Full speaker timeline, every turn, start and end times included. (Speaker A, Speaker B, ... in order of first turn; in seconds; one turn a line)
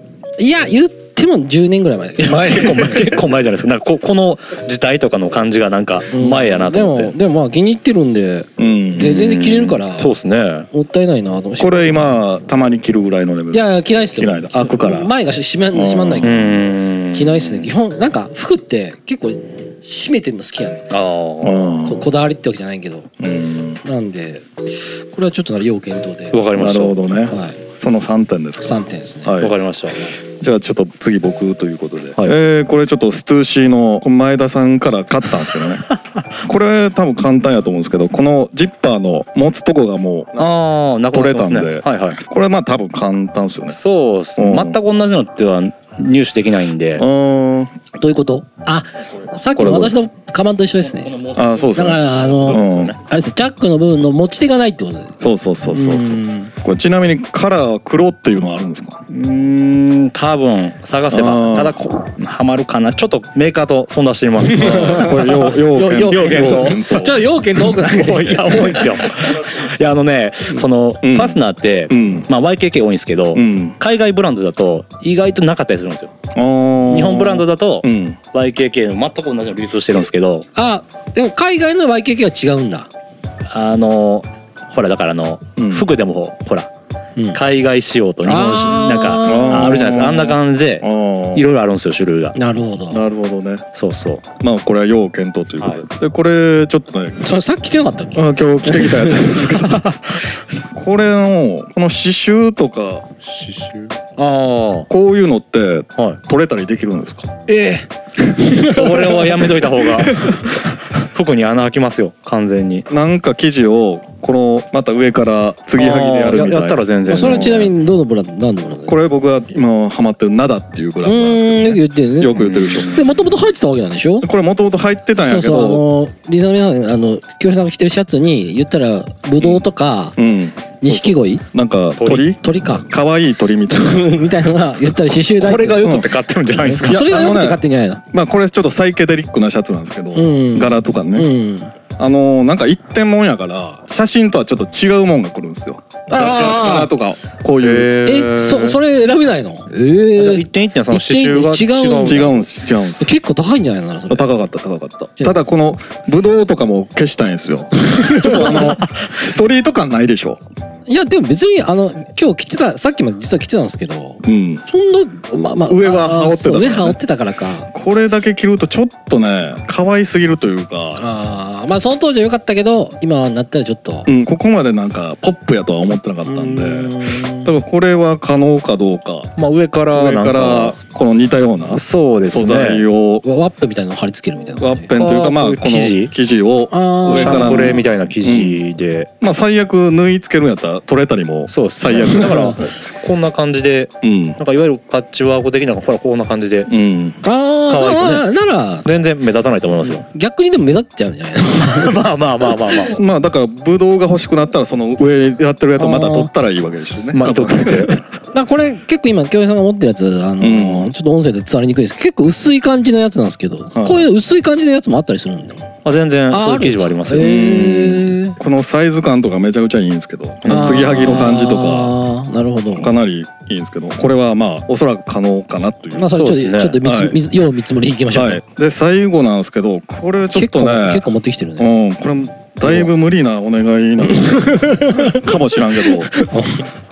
Speaker A: 0.4-3.2
Speaker B: 2.2-7.2
Speaker A: 6.1-10.1
Speaker C: 8.6-9.2
Speaker B: 9.0-10.7
Speaker A: 10.7-12.0
Speaker C: 11.6-15.1
Speaker A: 13.5-16.5
Speaker C: 15.7-16.4
Speaker B: 16.2-17.7
Speaker A: 17.1-20.9
Speaker B: 20.9-21.7
Speaker C: 21.4-22.1
Speaker A: 21.8-23.1
Speaker C: 23.2-23.8
Speaker A: 23.8-26.4
Speaker B: 26.3-27.1
Speaker C: 26.6-29.6
Speaker A: 27.3-27.6
Speaker A: 28.6-29.4
Speaker B: 29.4-30.1
Speaker C: 30.2-35.9
Speaker C: 36.4-40.5
Speaker B: 40.4-42.2
Speaker C: 41.1-43.8
Speaker B: 43.7-47.1
Speaker C: 44.4-44.8
Speaker C: 47.0-47.7
Speaker A: 47.9-51.1
Speaker C: 49.5-50.0
Speaker B: 50.8-53.0
Speaker C: 51.4-52.9
Speaker A: 51.7-55.2
Speaker C: 55.2-59.0
Speaker A: 55.7-56.5
Speaker B: 59.1-67.1
Speaker C: 61.1-61.8
Speaker A: 64.5-69.3
Speaker C: 64.6-67.2
Speaker B: 67.7-76.1
Speaker C: 71.0-72.3
Speaker C: 73.3-73.8
Speaker C: 76.3-78.2
Speaker B: 76.9-80.5
Speaker A: 80.5-82.9
Speaker B: 83.5-86.7
Speaker C: 85.6-85.9
Speaker B: 87.3-92.4
Speaker A: 88.2-89.9
Speaker C: 89.2-91.5
Speaker A: 92.3-93.0
Speaker C: 92.9-93.7
Speaker B: 93.8-94.2
Speaker C: 94.4-97.3
Speaker A: 97.2-99.3
Speaker C: 98.1-100.0
Speaker B: 99.4-100.2
Speaker C: 100.7-103.1
Speaker B: 103.2-104.9
Speaker C: 104.9-107.4
Speaker B: 107.5-107.9
Speaker B: 108.4-112.9
Speaker C: 108.5-110.6
Speaker C: 112.9-117.7
Speaker B: 115.8-117.7
Speaker A: 117.1-119.0
Speaker C: 118.9-123.0
Speaker A: 121.0-124.3
Speaker B: 122.4-123.2
Speaker C: 124.2-125.9
Speaker A: 125.2-130.2
Speaker C: 129.4-129.7
Speaker C: 130.2-134.1
Speaker A: 130.8-131.4
Speaker B: 132.0-132.3
Speaker A: 132.4-132.9
Speaker A: 133.7-136.0
Speaker B: 135.4-137.3
Speaker C: 135.8-136.1
Speaker A: 136.6-138.0
Speaker C: 136.8-137.6
Speaker C: 138.1-141.3
Speaker A: 140.1-141.7
Speaker C: 142.0-147.9
Speaker A: 146.1-146.9
Speaker B: 147.6-148.8
Speaker A: 148.0-152.4
Speaker B: 150.2-152.5
Speaker C: 152.0-153.1
Speaker A: 153.0-154.3
Speaker C: 154.1-160.4
Speaker A: 155.2-155.4
Speaker A: 157.8-158.8
Speaker B: 158.4-159.1
Speaker A: 160.9-167.7
Speaker C: 164.2-164.6
Speaker C: 165.7-167.0
Speaker C: 167.7-171.0
Speaker A: 171.0-174.1
Speaker C: 174.1-179.3
Speaker A: 176.3-177.5
Speaker B: 179.4-180.8
Speaker C: 179.9-183.2
Speaker B: 181.7-182.8
Speaker A: 183.2-184.9
Speaker C: 184.6-188.6
Speaker B: 184.9-186.1
Speaker A: 186.7-187.8
Speaker B: 187.1-189.1
Speaker C: 189.2-192.7
Speaker B: 191.5-196.7
Speaker A: 192.1-192.5
Speaker C: 194.0-194.4
Speaker C: 196.7-197.2
Speaker A: 197.2-198.9
Speaker B: 197.7-198.3
Speaker B: 198.8-200.1
Speaker A: 199.8-202.0
Speaker B: 201.6-203.0
Speaker C: 202.9-208.0
Speaker A: 205.8-206.3
Speaker B: 207.1-208.0
Speaker A: 208.3-215.7
Speaker C: 210.4-210.9
Speaker C: 213.8-214.1
Speaker B: 215.8-217.3
Speaker A: 216.3-218.4
Speaker C: 217.2-221.9
Speaker B: 220.4-221.4
Speaker A: 220.5-222.9
Speaker C: 222.7-226.2
Speaker A: 225.9-228.4
Speaker B: 226.1-226.8
Speaker C: 226.8-227.2
Speaker C: 228.1-231.1
Speaker A: 230.3-231.7
Speaker C: 231.6-236.1
Speaker A: 234.1-236.7